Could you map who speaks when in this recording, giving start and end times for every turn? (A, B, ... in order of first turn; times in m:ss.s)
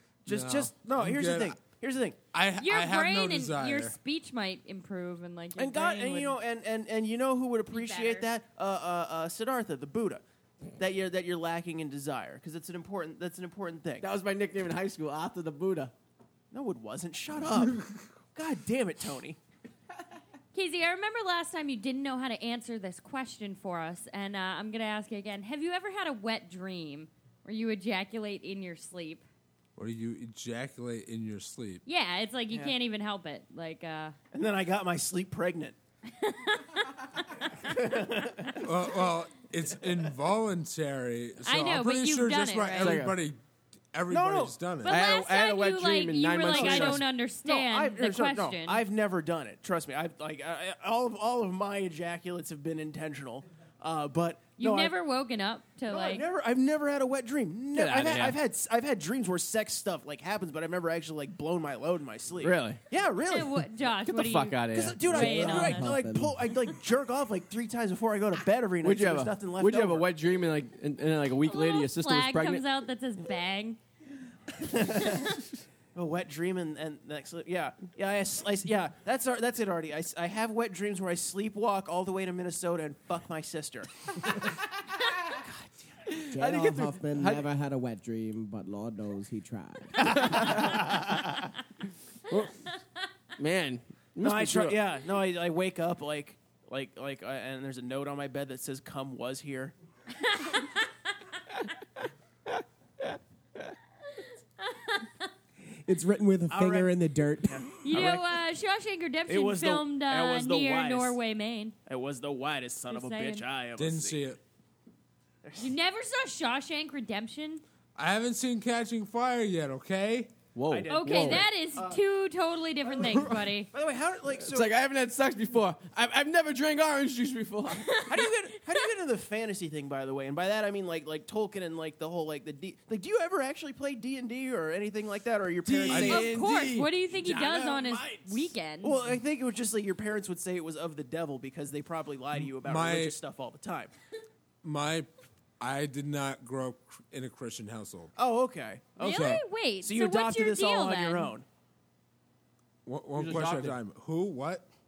0:00.2-0:02.2 A
0:00.3-0:01.6 B
0:02.3-0:04.0 B
0:02.6-0:06.4 C
0:05.6-0:10.2 A
0:07.7-0:08.3 C
0:10.8-0:14.1 A
0:14.0-0:15.9 D
0:16.5-0:19.4 A
0:20.5-0:29.2 C
0:29.8-0:31.8 B
0:31.9-0:34.2 C
0:34.3-0:35.8 A
0:36.1-0:37.4 C
0:37.6-0:38.7 A
0:38.6-0:43.4 B
0:41.4-0:43.0 C
0:42.8-0:43.2 D
0:43.9-0:45.0 B
0:44.1-0:44.6 A
0:44.8-0:48.8 C
0:44.9-0:47.0 D
0:46.5-0:54.9 A
0:54.6-0:56.3 C
0:55.9-1:03.6 A
0:57.7-0:58.4 D
1:02.4-1:02.8 D
1:03.2-1:04.7 C
1:04.0-1:06.0 D
1:04.7-1:10.1 A
1:05.1-1:06.5 E
1:08.8-1:12.6 D
1:11.4-1:13.8 C
1:14.5-1:15.4 A
1:15.9-1:24.5 A
1:25.3-1:25.8 A
1:26.1-1:27.5 D
1:26.3-1:30.6 E
1:30.0-1:31.5 A
1:30.1-1:30.8 D
1:32.3-1:32.6 D
1:33.4-1:34.8 D
1:34.2-1:39.7 A
1:40.2-1:40.9 C
1:42.5-1:43.2 D
1:44.6-1:45.3 C
1:45.8-1:47.6 E
1:46.5-1:48.4 A
1:47.8-1:51.8 C
1:49.3-1:51.2 A
1:51.9-1:54.2 A
1:52.9-1:53.4 C
1:53.8-1:54.4 B
1:55.4-1:55.7 A
1:55.6-1:57.6 C
1:58.0-2:00.4 B
2:00.6-2:01.5 D
2:00.7-2:02.0 A
2:00.9-2:03.7 C
2:02.8-2:04.7 A
2:04.4-2:08.0 D
2:07.9-2:08.3 C
2:08.1-2:16.3 A
2:15.6-2:17.8 D
2:15.9-2:19.0 C
2:15.9-2:16.3 B
2:17.2-2:23.9 A
2:22.4-2:23.2 B
2:24.6-2:25.1 B
2:25.6-2:28.1 B
2:28.2-2:31.5 A
2:29.0-2:31.4 C
2:29.0-2:29.4 B
2:32.8-2:34.7 B
2:33.2-2:33.8 D